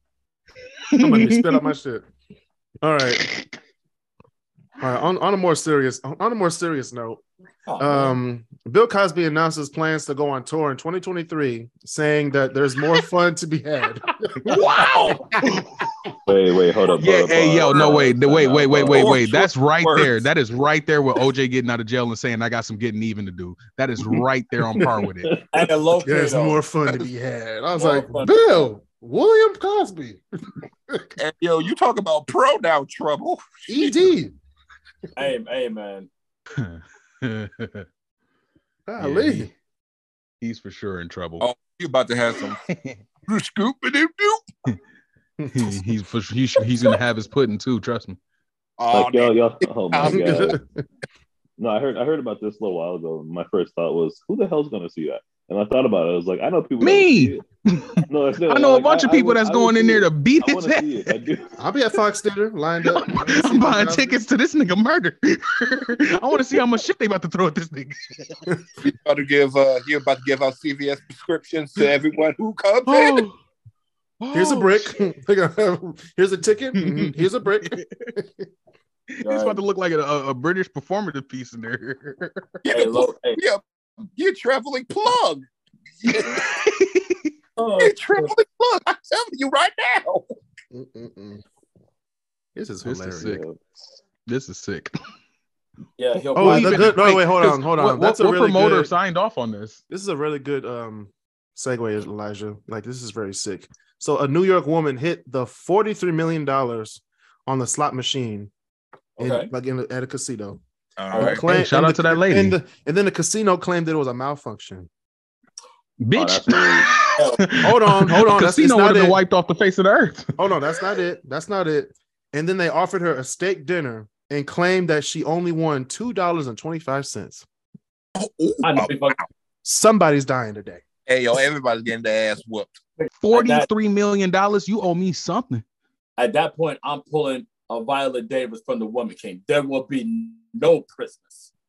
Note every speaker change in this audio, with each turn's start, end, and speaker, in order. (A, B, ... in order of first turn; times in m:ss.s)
0:00.9-0:01.6 A
0:01.0-0:02.0 B
0:02.8-0:03.2 B
0:03.1-0:03.5 A
0:04.8-0:07.2 B
0:07.7-0:08.2 C
0:07.8-0:14.6 B
0:14.4-0:15.8 A
0:14.8-0:15.2 C
0:16.2-0:19.2 D
0:16.9-0:25.4 A
0:17.8-0:18.0 E
0:18.8-0:20.1 E
0:25.5-0:26.6 C
0:26.0-0:30.2 B
0:27.8-0:28.7 C
0:31.2-0:34.0 E
0:33.7-0:34.3 B
0:35.2-0:36.1 C
0:36.5-0:37.9 A
0:38.9-0:39.5 B
0:39.0-0:39.5 A
0:40.4-0:41.5 A
0:41.4-0:42.6 E
0:43.3-0:44.4 E
0:45.4-0:45.9 B
0:45.5-0:48.2 A
0:48.8-0:50.6 E
0:48.9-0:50.6 D
0:50.0-0:50.6 B
0:51.6-0:57.4 D
0:56.8-1:01.1 A
0:58.1-1:01.5 D
1:01.6-1:04.2 B
1:02.9-1:08.4 A
1:08.8-1:13.2 E
1:12.9-1:13.4 A
1:14.2-1:15.0 A
1:14.3-1:18.4 B
1:16.7-1:18.1 A
1:19.2-1:22.5 A
1:19.2-1:19.6 C
1:22.6-1:23.6 E
1:22.7-1:23.4 C
1:24.1-1:25.4 E
1:26.0-1:26.6 E
1:26.2-1:27.3 A
1:27.6-1:28.3 C
1:27.8-1:30.3 E
1:30.7-1:31.4 B
1:32.5-1:33.4 B
1:32.8-1:33.4 A
1:33.3-1:33.6 D
1:34.2-1:35.0 A
1:36.0-1:37.0 C
1:36.3-1:39.8 A
1:36.4-1:38.9 B
1:39.9-1:48.5 B
1:49.2-1:49.5 C
1:49.2-1:50.6 B
1:51.0-1:51.4 E
1:51.1-1:51.4 C
1:51.1-1:54.9 B
1:51.4-1:52.6 A
1:56.0-2:00.3 A
1:56.1-1:56.9 D
1:57.2-1:57.4 C
1:57.6-1:59.2 B
2:00.4-2:07.4 B
2:08.2-2:09.2 E
2:08.6-2:09.2 C
2:09.6-2:10.8 B
2:11.1-2:12.8 E
2:13.0-2:13.7 C
2:13.2-2:15.6 A
2:16.2-2:21.5 C